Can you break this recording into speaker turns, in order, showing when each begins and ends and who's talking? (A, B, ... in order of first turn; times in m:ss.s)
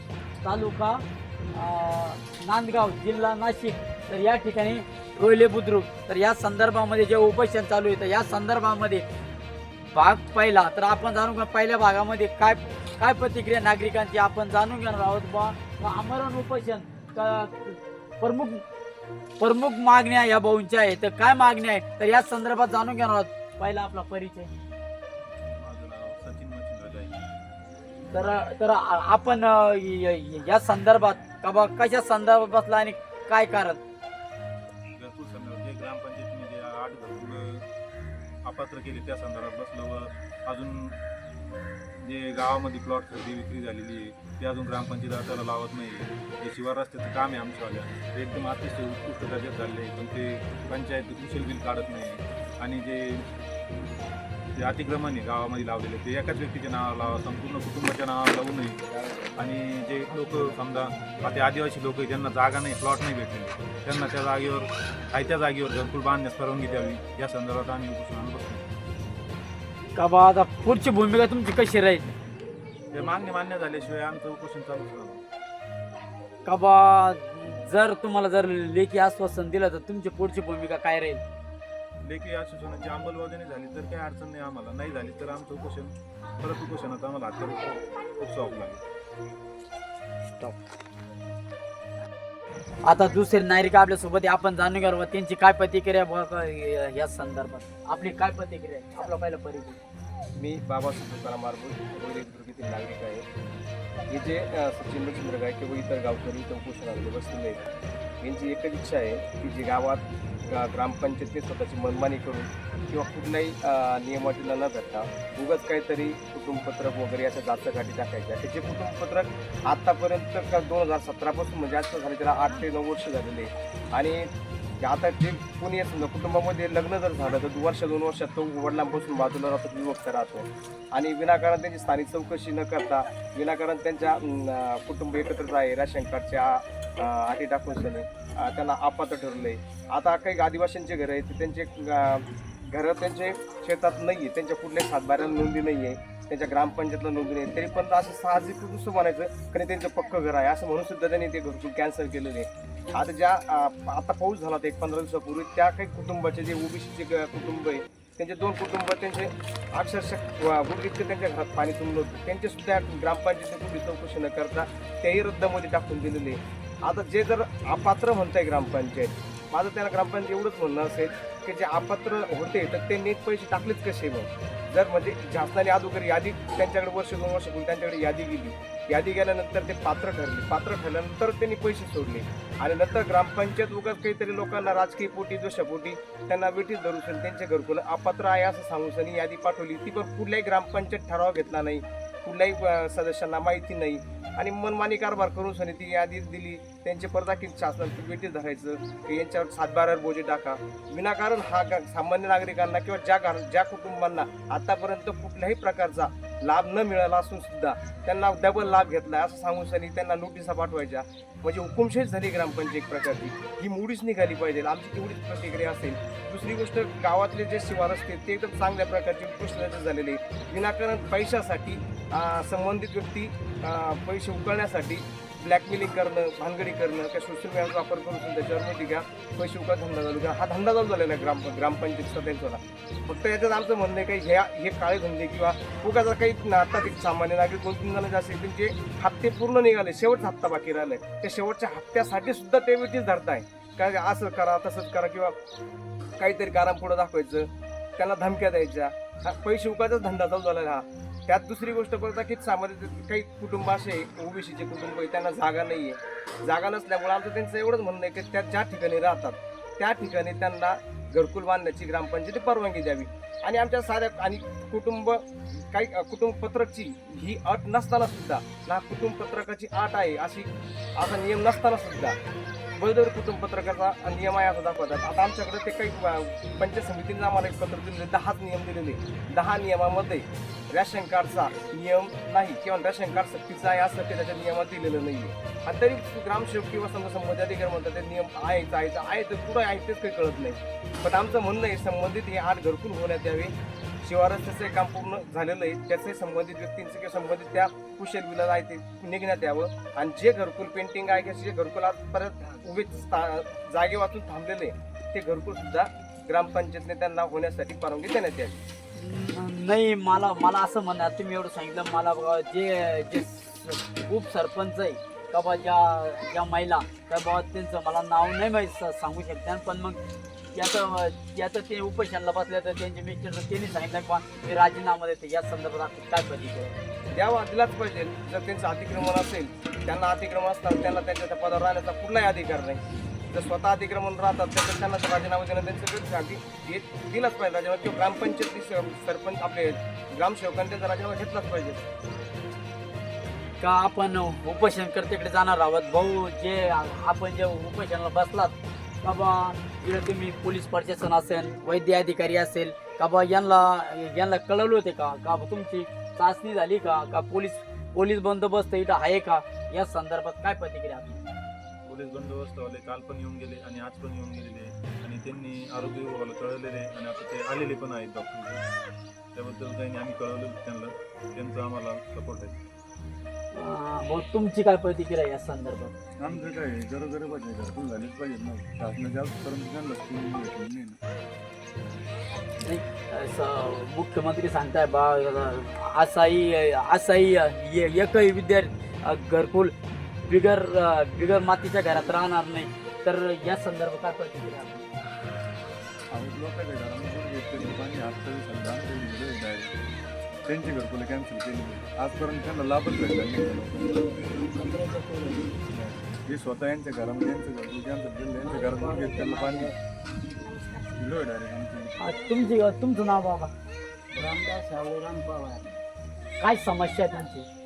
0:00.4-0:09.0 A
0:09.8-0:18.6 A
0:19.4-0:24.5 A
0:25.6-0:27.2 B
0:28.1-0:33.8 A
0:35.0-0:37.6 B
0:38.4-0:41.0 B
0:42.0-0:53.2 B
0:54.6-0:58.8 B
0:59.0-0:59.2 C
0:59.4-1:08.7 B
1:09.9-1:12.1 A
1:12.9-1:15.2 B
1:16.4-1:21.2 A
1:22.0-1:28.8 B
1:32.8-1:39.8 A
1:40.4-1:43.2 C
1:44.1-2:04.3 C
2:04.8-4:05.4 C
4:06.2-4:32.2 C
4:32.8-5:08.6 C
5:08.9-5:20.0 A
5:20.5-5:26.8 A
5:27.1-5:41.8 C
5:43.6-6:01.2 A
6:01.8-6:08.6 B
6:09.3-6:12.6 B
6:13.5-6:15.9 A
6:16.2-6:21.0 D
6:22.6-6:34.8 A
6:36.1-6:39.7 D
6:40.5-6:44.0 D
6:44.2-6:45.6 E
6:45.7-6:49.7 D
6:48.4-6:49.7 E
6:51.0-6:52.0 D
6:52.0-6:53.5 A
6:54.1-6:55.7 E
6:56.4-6:57.4 A